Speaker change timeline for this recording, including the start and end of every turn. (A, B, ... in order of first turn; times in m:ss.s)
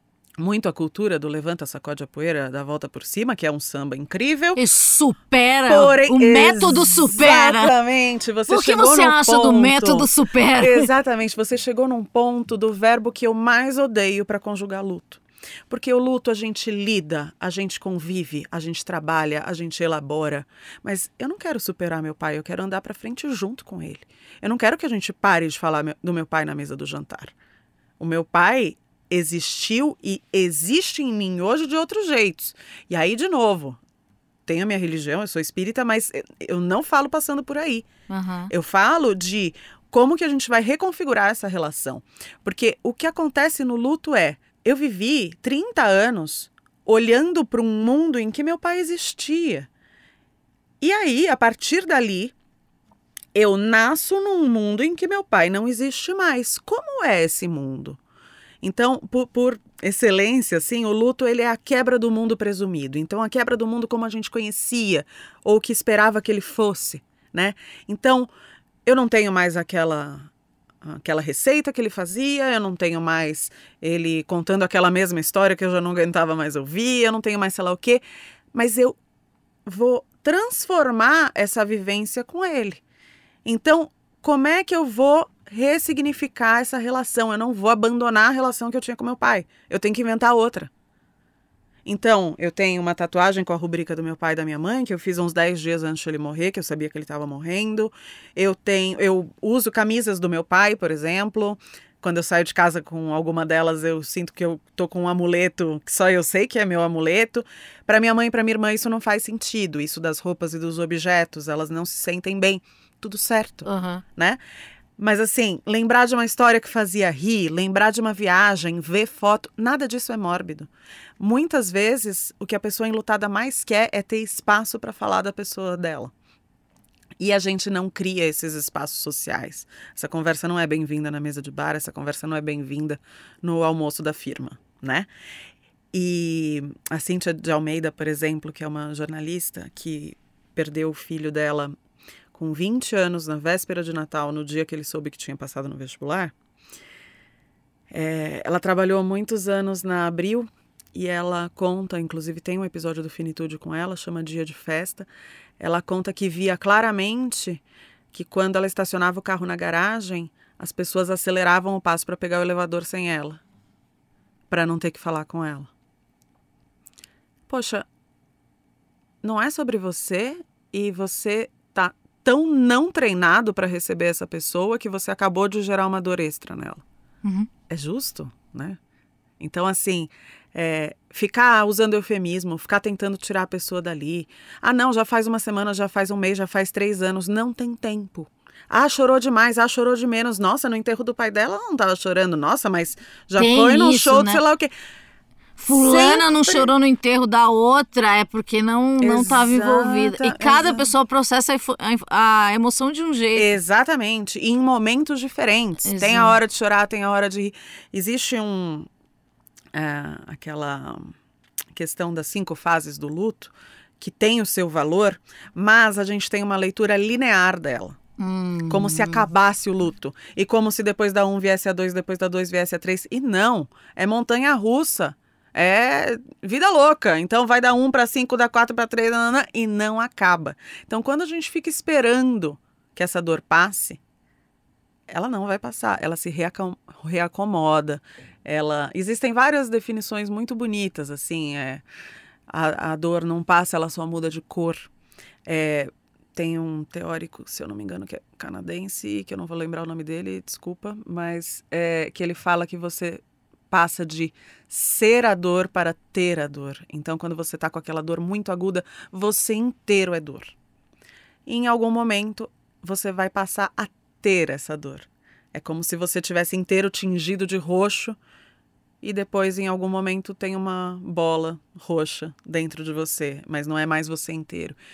0:00.4-0:04.6 A
0:04.6-0:07.7 B
0:05.7-0:27.3 A
0:08.5-0:10.9 B
0:28.0-0:33.8 A
0:34.5-0:37.9 A
0:38.1-0:38.5 B
0:38.5-0:49.7 A
0:50.8-0:52.3 A
0:53.3-0:58.0 A
0:58.6-1:08.3 A
1:08.8-1:10.3 A
1:10.8-1:18.0 A
1:18.5-1:19.0 A
1:19.7-1:22.8 A
1:23.4-1:30.7 A
1:31.8-1:54.4 A
1:53.6-1:54.0 B
1:55.0-2:06.1 A
2:07.2-2:15.1 A
2:15.9-2:21.7 A
2:22.3-2:26.3 A
2:27.9-2:35.1 A
2:35.6-2:43.4 A
2:44.5-2:45.7 A
2:47.5-2:47.9 A
2:49.2-2:56.8 A
2:57.2-2:57.5 B
2:57.7-2:58.8 A
2:59.4-3:14.7 A
3:13.4-3:14.4 B
3:15.6-3:23.5 B
3:15.7-3:16.7 A
3:19.0-3:20.8 A
3:23.4-3:28.9 A
3:25.8-3:26.4 B
3:29.7-3:31.2 A
3:31.7-3:38.0 A
3:38.2-3:39.3 B
3:38.7-3:54.0 A
3:55.1-4:01.8 A
4:02.5-4:04.9 A
4:05.5-4:20.5 A
4:21.5-4:28.2 A
4:29.0-4:34.8 A